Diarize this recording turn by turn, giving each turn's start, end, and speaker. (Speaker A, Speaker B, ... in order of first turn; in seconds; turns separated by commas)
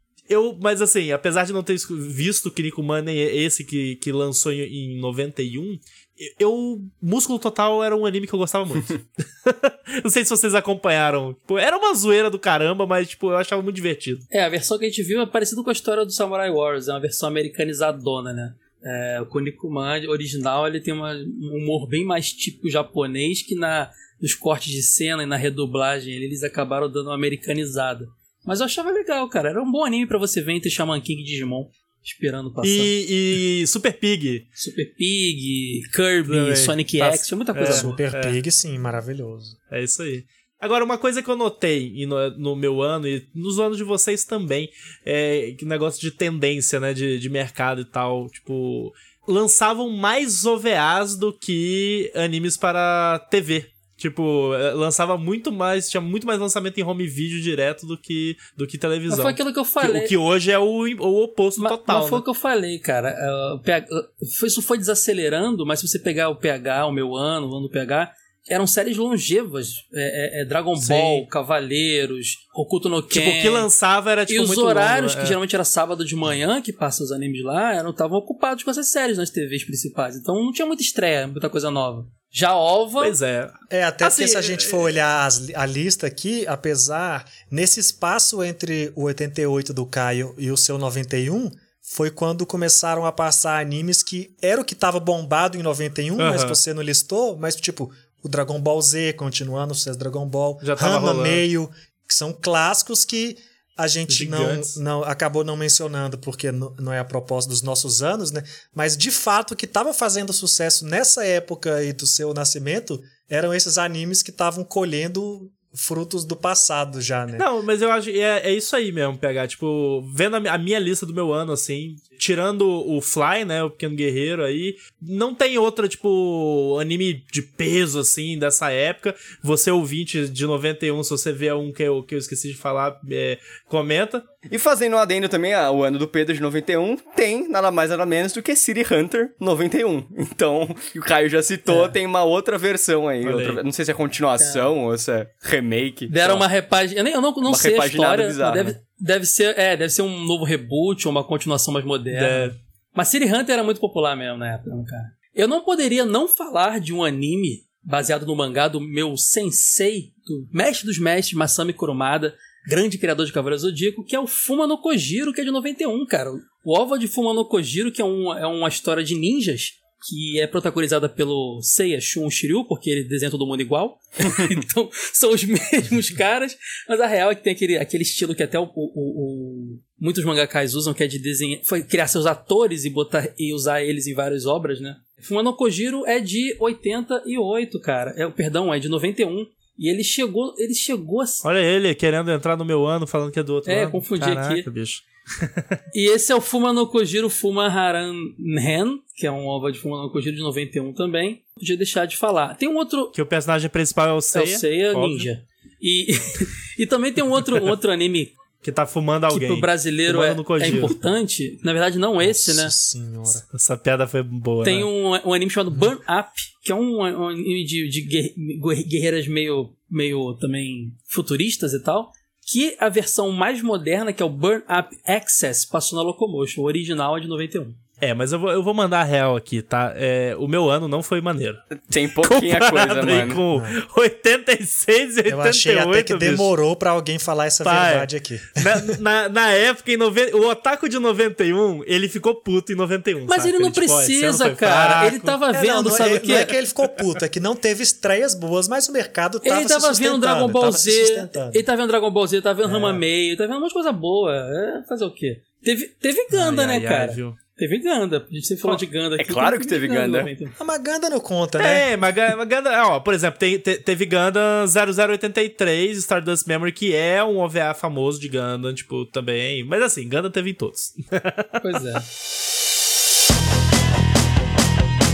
Speaker A: 0.3-14.2, Speaker B: 14.3-32.9, Speaker A: 32.6-34.5, Speaker B: 34.6-37.9, Speaker A: 36.3-38.4, Speaker C: 37.6-39.6, Speaker A: 39.7-62.2, Speaker B: 59.1-60.1, Speaker B: 61.6-73.7, Speaker A: 70.7-71.2, Speaker A: 73.1-75.4, Speaker B: 74.3-83.2, Speaker A: 83.0-84.9, Speaker C: 83.7-117.5, Speaker A: 96.2-96.6, Speaker A: 100.6-101.4, Speaker A: 104.1-104.8, Speaker A: 117.4-134.2, Speaker D: 134.5-146.4, Speaker B: 141.7-141.9, Speaker A: 143.2-143.6, Speaker B: 144.4-144.7, Speaker B: 146.1-191.4, Speaker D: 147.4-148.8, Speaker A: 152.1-152.5, Speaker A: 191.4-195.8, Speaker B: 193.7-194.7, Speaker B: 195.9-203.1, Speaker A: 203.1-205.3, Speaker B: 204.3-208.3, Speaker A: 208.6-210.9, Speaker B: 209.3-212.7, Speaker C: 212.2-213.4, Speaker A: 213.3-214.9, Speaker B: 214.6-227.8, Speaker A: 228.0-236.5, Speaker D: 231.7-233.4, Speaker C: 233.5-233.8, Speaker C: 235.3-238.9, Speaker A: 237.6-245.4, Speaker B: 243.3-246.5, Speaker C: 244.8-251.6, Speaker B: 249.4-260.5, Speaker A: 252.7-253.0, Speaker A: 256.3-257.4, Speaker D: 259.2-260.3, Speaker C: 260.6-261.9, Speaker A: 261.6-272.0, Speaker B: 271.6-272.0